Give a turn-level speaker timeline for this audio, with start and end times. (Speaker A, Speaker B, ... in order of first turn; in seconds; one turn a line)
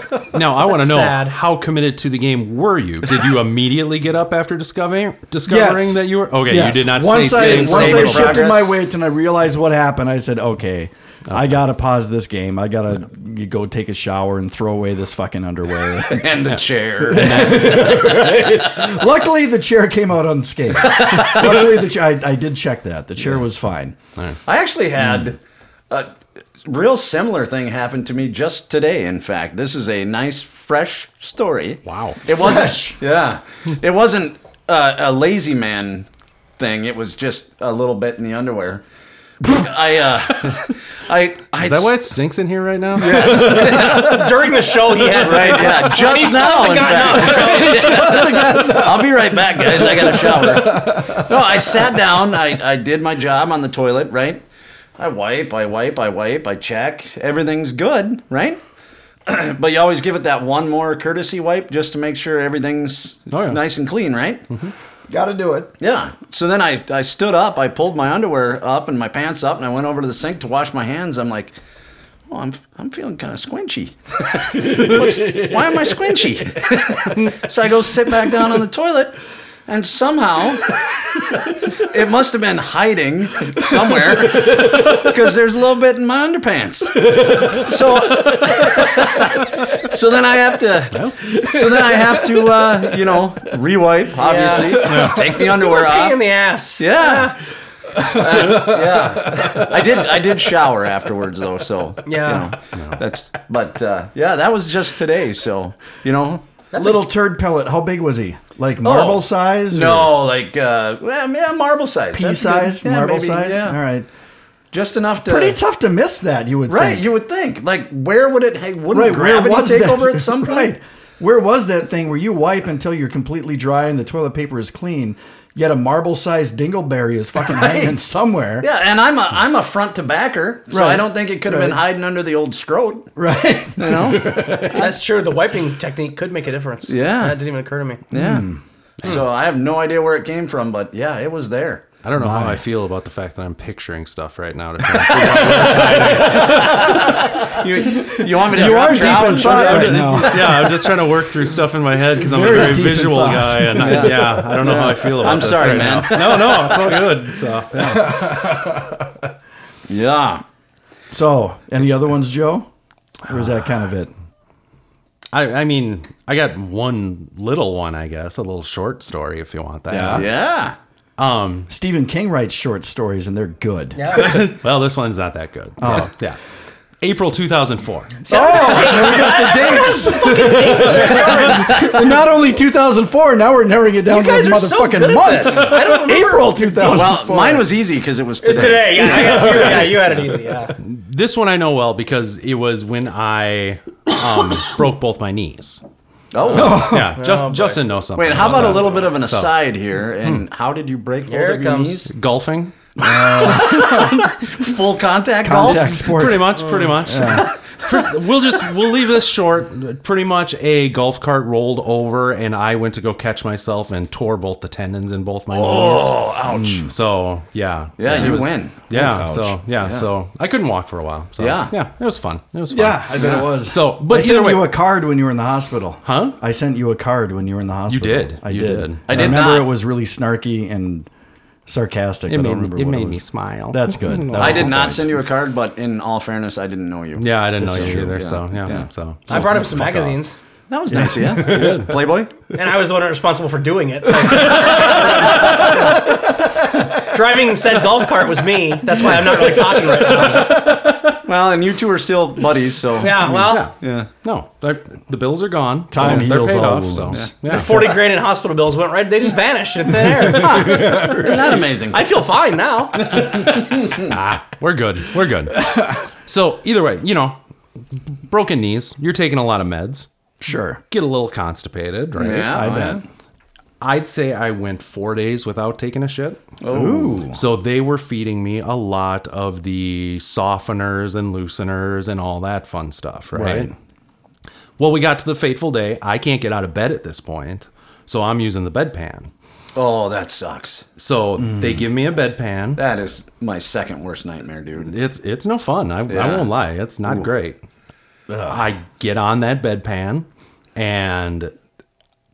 Speaker A: 0.2-8.5
Speaker B: 0.6-1.4
Speaker C: 5.5-16.3
Speaker D: 7.2-8.7
Speaker D: 16.1-18.3
Speaker A: 16.5-18.0
Speaker C: 17.1-23.9
Speaker D: 20.8-21.7
Speaker D: 24.4-25.4
Speaker D: 26.6-36.1
Speaker A: 31.9-32.2
Speaker C: 32.3-33.0
Speaker D: 36.6-38.8
Speaker D: 39.4-42.0
Speaker A: 41.6-43.9
Speaker D: 42.9-44.5
Speaker C: 43.0-44.3
Speaker B: 43.5-48.3
Speaker D: 45.1-54.4
Speaker C: 47.0-51.7
Speaker D: 55.0-58.6
Speaker D: 59.2-64.5
Speaker A: 63.3-63.6
Speaker C: 65.1-65.7
Speaker D: 65.8-71.6
Speaker D: 72.3-80.8
Speaker C: 74.5-76.5
Speaker D: 81.7-96.2
Speaker C: 84.4-84.8
Speaker C: 87.1-87.5
Speaker C: 88.3-88.8
Speaker A: 90.9-91.2
Speaker C: 91.6-92.5
Speaker B: 94.2-97.4
Speaker C: 94.8-95.3
Speaker A: 94.9-95.2
Speaker D: 96.8-97.3
Speaker C: 97.9-99.9
Speaker D: 98.0-106.4
Speaker B: 102.0-102.5
Speaker B: 106.7-107.0
Speaker C: 106.7-110.1
Speaker D: 108.8-113.8
Speaker C: 112.1-114.1
Speaker D: 114.7-115.6
Speaker C: 115.2-117.0
Speaker D: 116.7-120.7
Speaker C: 118.9-128.7
Speaker D: 127.5-127.9
Speaker D: 128.6-133.1
Speaker C: 130.7-131.8
Speaker C: 133.2-134.9
Speaker D: 133.8-134.9
Speaker B: 134.7-138.0
Speaker D: 136.9-137.4
Speaker D: 138.1-138.5
Speaker C: 138.1-138.6
Speaker D: 139.0-141.9
Speaker A: 142.0-147.2
Speaker C: 142.1-142.6
Speaker B: 145.2-146.7
Speaker D: 145.6-150.7
Speaker C: 146.5-147.2
Speaker C: 147.8-150.8
Speaker A: 148.6-158.4
Speaker C: 152.2-154.5
Speaker D: 153.8-157.1
Speaker C: 155.8-156.4
Speaker C: 157.7-159.1
Speaker D: 159.9-160.4
Speaker C: 161.1-162.7
Speaker C: 163.2-164.1
Speaker A: 165.3-170.3
Speaker C: 169.9-170.2
Speaker D: 170.1-170.8
Speaker A: 171.2-171.7
Speaker C: 171.7-174.5
Speaker B: 173.9-174.4
Speaker A: 174.1-176.4
Speaker C: 175.8-176.1
Speaker A: 177.0-178.2
Speaker B: 178.2-182.1
Speaker C: 178.2-187.7
Speaker B: 184.1-187.2
Speaker D: 186.8-190.0
Speaker B: 188.4-190.7
Speaker C: 189.0-189.9
Speaker A: 190.8-195.8
Speaker D: 196.3-196.9
Speaker A: 196.5-199.5
Speaker C: 196.5-197.2
Speaker B: 196.7-197.8
Speaker D: 198.2-202.1
Speaker B: 201.3-202.0
Speaker A: 202.1-202.8
Speaker C: 203.0-204.3
Speaker D: 203.0-206.1
Speaker C: 205.4-207.5
Speaker A: 205.8-216.2
Speaker B: 206.7-206.9
Speaker D: 215.5-216.9
Speaker C: 216.5-216.9
Speaker A: 216.9-224.7
Speaker D: 218.0-219.2
Speaker C: 218.1-219.6
Speaker D: 219.8-220.1
Speaker D: 221.4-221.7
Speaker C: 222.7-231.1
Speaker D: 223.2-223.5
Speaker A: 226.0-226.4
Speaker A: 227.9-229.3
Speaker D: 229.1-229.7
Speaker C: 231.7-235.2
Speaker A: 232.3-234.9
Speaker D: 234.3-238.9
Speaker A: 237.2-240.2
Speaker C: 237.6-238.2
Speaker B: 239.3-240.3
Speaker D: 240.7-242.3
Speaker C: 240.9-241.8
Speaker A: 241.1-242.0
Speaker B: 242.5-246.2
Speaker D: 244.7-245.6
Speaker C: 245.4-245.9
Speaker B: 246.8-250.7
Speaker A: 249.4-251.1
Speaker D: 251.2-254.1
Speaker B: 253.0-253.7
Speaker A: 253.1-258.0
Speaker C: 255.9-257.3
Speaker B: 257.5-260.9
Speaker C: 260.1-261.6
Speaker D: 260.2-262.0
Speaker B: 261.9-263.2
Speaker D: 263.0-264.1
Speaker A: 263.3-267.4
Speaker A: 268.1-270.1
Speaker C: 270.4-270.8
Speaker A: 270.9-273.0
Speaker D: 272.2-273.0
Speaker C: 272.4-273.0
Speaker A: 273.8-276.4
Speaker D: 276.6-277.3
Speaker C: 276.7-277.4
Speaker A: 277.3-283.7
Speaker A: 284.8-289.3
Speaker D: 289.7-290.9
Speaker A: 291.0-292.8
Speaker C: 291.4-291.8
Speaker D: 292.8-294.9
Speaker A: 294.8-297.6
Speaker D: 296.1-296.5
Speaker C: 298.3-298.6
Speaker A: 298.5-301.5